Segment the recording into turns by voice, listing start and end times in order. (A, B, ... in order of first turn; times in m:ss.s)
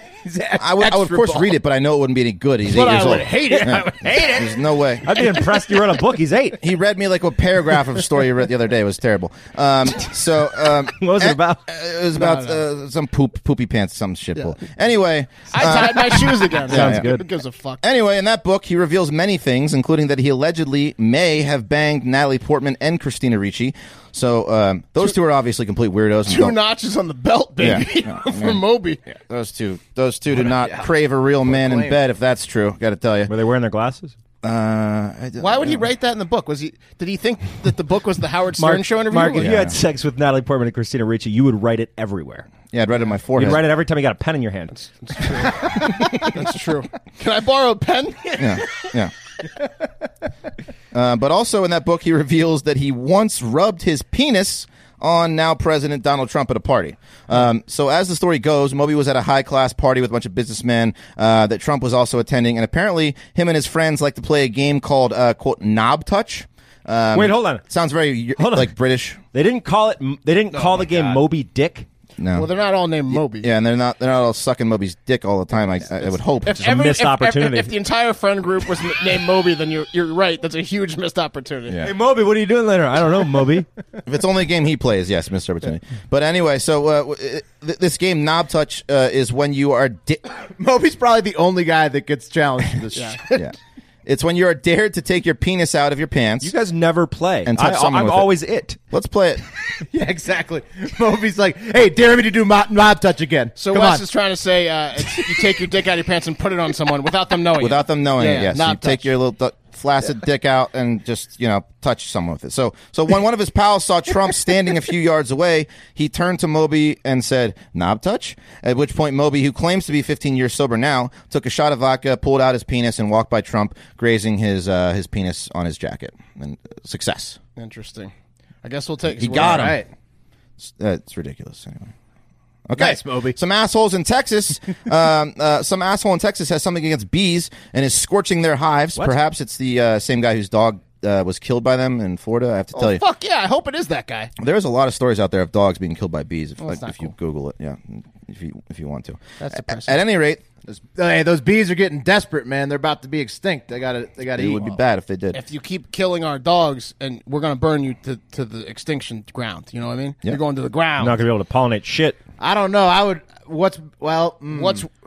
0:00.2-0:01.5 A
0:00.6-0:05.1 B
0:02.7-0:04.2 C
0:03.5-0:06.6 D
0:06.6-0:17.1 B
0:10.9-0:11.6 D
0:12.2-0:12.6 C
0:15.5-0:17.8 C
0:16.6-0:17.3 D
0:17.8-0:26.6 B
0:26.3-0:29.0 C
0:27.6-0:33.3 B
0:30.4-0:30.9 A
0:31.4-0:32.0 A
0:33.3-0:34.2 D
0:34.4-0:35.8 B
0:35.4-0:39.5 C
0:38.6-0:42.5 D
0:39.4-0:39.8 B
0:42.7-0:43.6 B
0:43.4-0:44.7 D
0:44.7-0:48.9 C
0:48.4-0:49.1 B
0:50.9-1:09.2 B
1:07.1-1:07.6 D
1:08.4-1:08.7 D
1:09.3-1:11.9 D
1:10.5-1:11.2 C
1:12.2-1:12.5 B
1:12.3-1:13.5 C
1:13.1-1:16.6 B
1:16.4-1:21.8 C
1:16.5-1:17.7 D
1:21.7-1:21.9 B
1:21.8-1:23.7 D
1:24.0-1:30.2 B
1:30.5-1:33.4 A
1:32.9-1:33.2 C
1:33.3-1:36.5 B
1:36.4-1:38.8 D
1:37.4-1:39.4 B
1:39.8-1:44.0 A
1:43.6-1:49.1 C
1:45.1-1:45.5 A
1:47.6-2:07.4 B
2:07.6-2:08.1 C
2:08.6-2:09.8 C
2:09.2-2:09.8 B
2:09.4-2:09.9 A
2:10.6-2:11.9 B
2:12.7-2:23.0 B
2:12.8-2:13.4 A
2:22.7-2:24.3 C
2:24.4-2:30.4 B
2:26.6-2:27.1 C
2:29.4-2:30.0 C
2:30.7-2:34.8 A
2:34.3-2:35.4 B
2:35.3-2:41.2 C
2:41.0-2:42.2 D
2:42.4-2:44.8 A
2:44.5-2:44.9 C